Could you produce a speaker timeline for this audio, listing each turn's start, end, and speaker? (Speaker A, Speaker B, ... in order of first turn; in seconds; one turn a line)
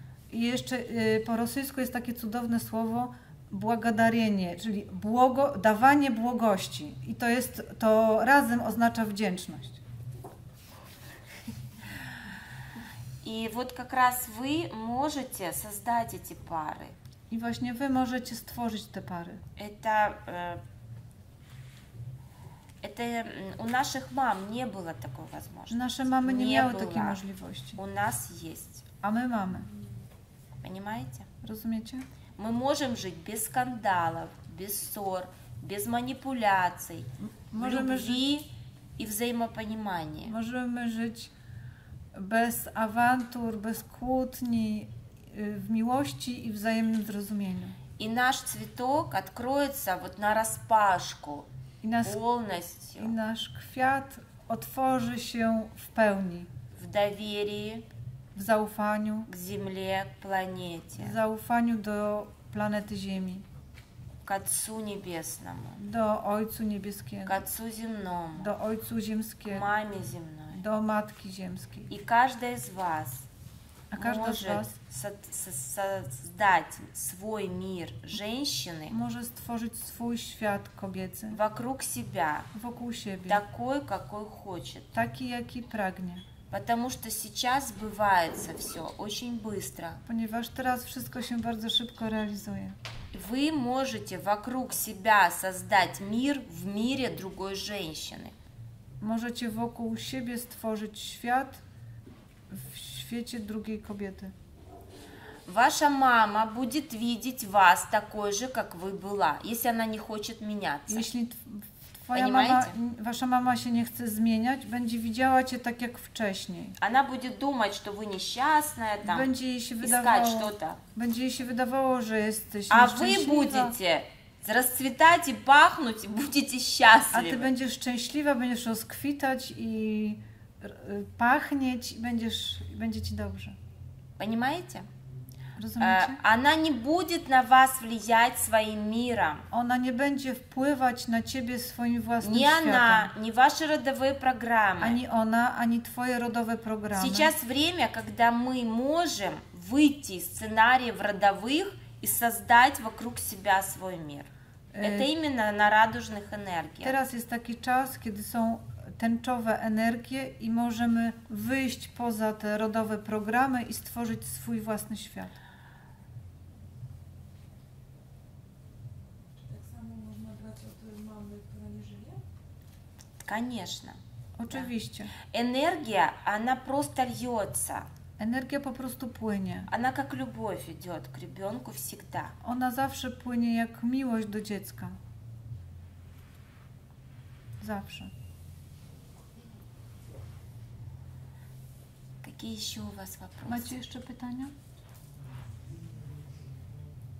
Speaker A: 0.3-9.8
Speaker B: 13.2-16.9
Speaker A: 17.3-19.4
Speaker B: 19.6-20.6
Speaker B: 22.8-27.2
Speaker A: 25.7-27.8
Speaker B: 27.7-28.8
Speaker A: 29.0-29.7
Speaker B: 30.6-31.3
Speaker A: 31.4-32.0
Speaker B: 32.4-40.3
Speaker A: 37.2-38.2
Speaker A: 40.2-41.3
Speaker A: 42.1-47.8
Speaker B: 48.0-51.5
Speaker A: 51.8-52.2
Speaker B: 52.0-53.1
Speaker A: 53.0-56.5
Speaker B: 56.7-57.9
Speaker A: 58.3-59.3
Speaker B: 59.3-61.1
Speaker A: 61.0-63.4
Speaker B: 64.2-65.8
Speaker A: 65.8-67.4
Speaker B: 67.2-68.5
Speaker A: 68.4-69.7
Speaker B: 69.5-70.6
Speaker A: 70.5-71.9
Speaker B: 71.9-73.3
Speaker A: 73.9-74.7
Speaker B: 73.9-79.0
Speaker A: 78.9-81.4
Speaker B: 81.3-82.5
Speaker A: 82.5-83.4
Speaker B: 83.2-84.9
Speaker A: 84.9-86.2
Speaker B: 86.5-90.0
Speaker A: 90.0-92.8
Speaker B: 93.1-98.3
Speaker A: 99.0-101.6
Speaker A: 102.5-104.3
Speaker B: 105.5-111.1
Speaker A: 110.9-116.8
Speaker B: 112.1-112.7
Speaker B: 116.8-120.8
Speaker A: 119.0-123.8
Speaker B: 122.7-127.5
Speaker A: 127.1-133.6
Speaker B: 134.2-134.9
Speaker A: 135.6-136.2
Speaker B: 135.8-139.4
Speaker A: 139.5-143.1
Speaker B: 142.2-145.0
Speaker A: 144.8-147.3
Speaker B: 146.9-157.0
Speaker A: 154.7-155.1
Speaker A: 156.8-165.3
Speaker C: 169.4-172.2
Speaker B: 173.2-174.0
Speaker A: 174.4-175.1
Speaker B: 175.2-177.9
Speaker A: 178.2-179.7
Speaker B: 179.7-182.3
Speaker A: 182.4-185.0
Speaker A: 187.6-188.1
Speaker B: 192.2-193.8
Speaker A: 193.4-194.5